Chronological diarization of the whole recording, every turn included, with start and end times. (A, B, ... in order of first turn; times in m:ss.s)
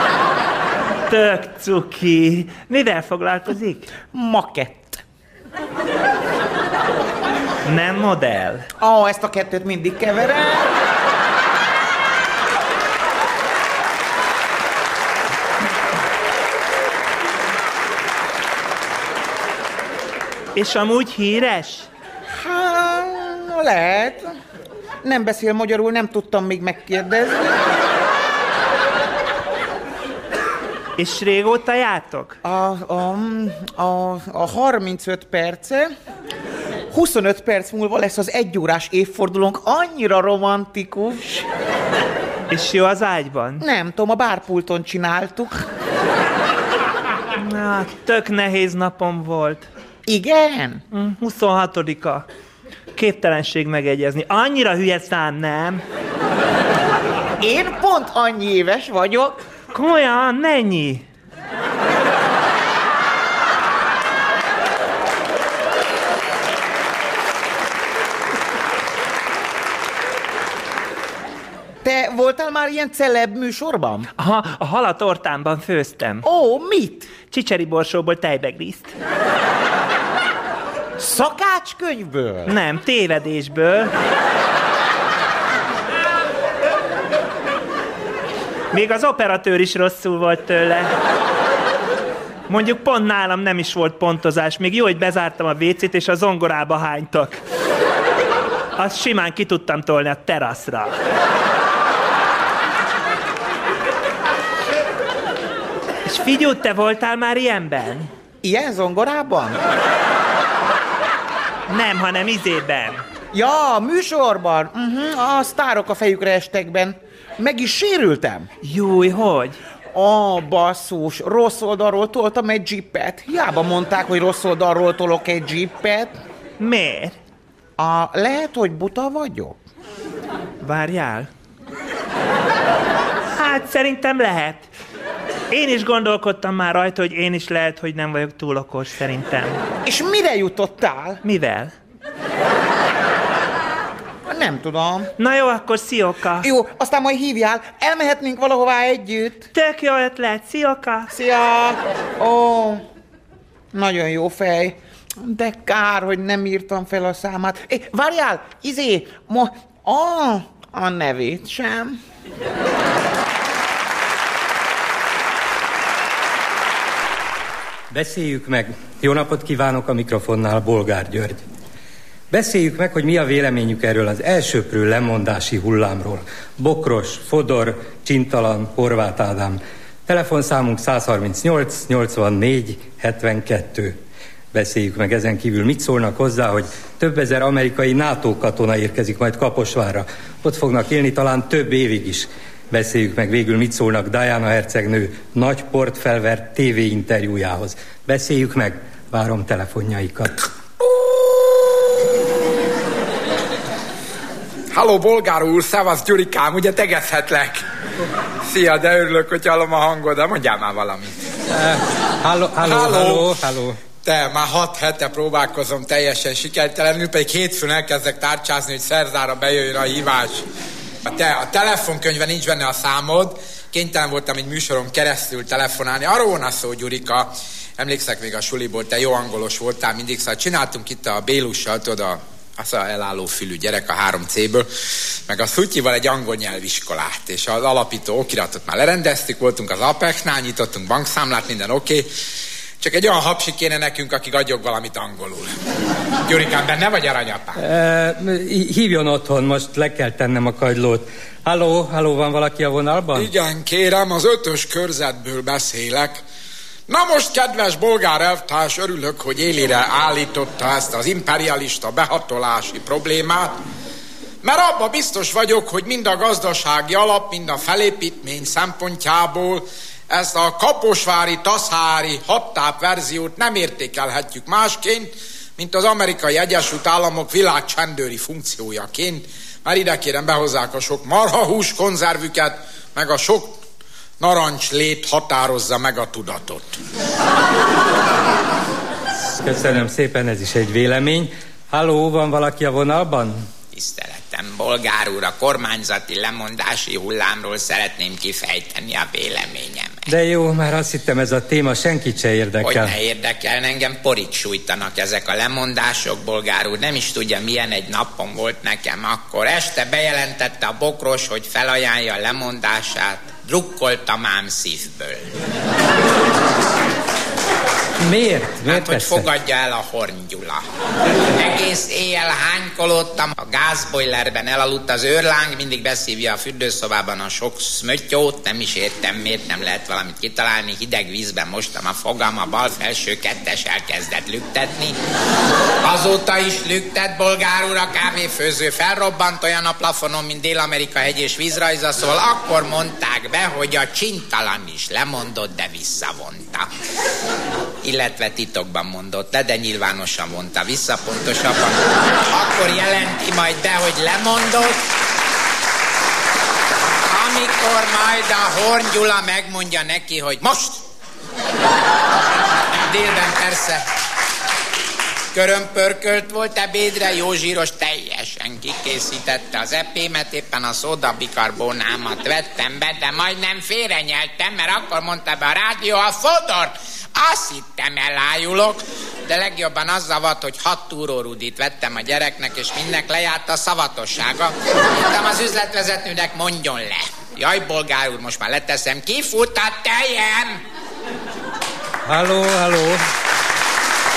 0:01.1-0:03.9 A
0:04.1-0:05.0 B
0:07.6-0:08.6 A
0:08.8-0:10.6 B
0:20.6-0:21.9 A
0:22.3-0:24.4 B
0:25.0-0:27.5 B
0:31.0-0:32.4 A
0:32.4-0:35.9 B
0:36.9-0:41.4 B
0:42.5-0:43.6 A
0:43.6-0:45.7 B
0:47.4-0:49.7 A
0:50.1-0:50.8 B
0:50.9-0:52.3 A
0:53.0-0:55.8 A
0:57.4-0:59.4 B
0:59.7-1:01.0 A
1:11.8-1:14.1 B
1:14.2-1:16.2 A
1:16.2-1:17.1 B
1:17.1-1:18.9 A
1:21.0-1:22.5 B
1:22.5-1:23.9 A
1:28.7-1:30.9 A
1:32.5-1:37.4 A
1:38.8-1:40.9 A
1:46.0-1:48.1 A
1:48.4-1:49.6 B
1:51.7-1:53.0 A
1:53.3-1:58.5 B
1:58.6-1:59.6 A
1:59.9-2:06.2 B
2:06.6-2:07.1 A
2:07.8-2:09.6 B
2:10.6-2:11.3 A
2:13.4-2:14.7 A
2:15.5-2:19.6 A
2:19.8-2:21.2 B
2:21.2-2:21.7 A
2:24.3-2:25.1 B
2:25.2-2:26.5 A
2:26.4-2:29.5 B
2:29.5-2:31.1 A
2:31.1-2:32.8 B
2:33.7-2:42.0 B
2:47.9-2:51.4 C
2:52.3-3:04.0 C
3:04.5-3:20.4 C
3:24.7-3:27.6 D
3:28.5-3:31.1 D
3:31.5-3:33.8 C
3:32.6-3:33.3 D
3:33.9-3:40.4 D
3:41.0-3:54.7 D
3:55.3-4:02.1 D
4:02.8-4:05.5 D
4:06.2-4:07.6 D
4:07.6-4:13.3 C
4:13.2-4:16.2 D
4:16.9-4:23.6 D
4:24.4-4:43.6 D
4:44.2-4:46.8 D
4:49.4-4:53.5 C
4:53.7-5:00.0 E
5:00.1-5:03.0 C
5:02.6-5:15.2 E
5:18.0-5:19.3 C
5:18.6-5:20.6 E
5:21.3-5:35.0 E
5:35.8-5:46.7 E
5:47.8-5:54.9 E
5:57.0-6:00.9 E
6:02.7-6:03.8 E
6:05.3-6:30.6 E
6:32.0-6:33.0 C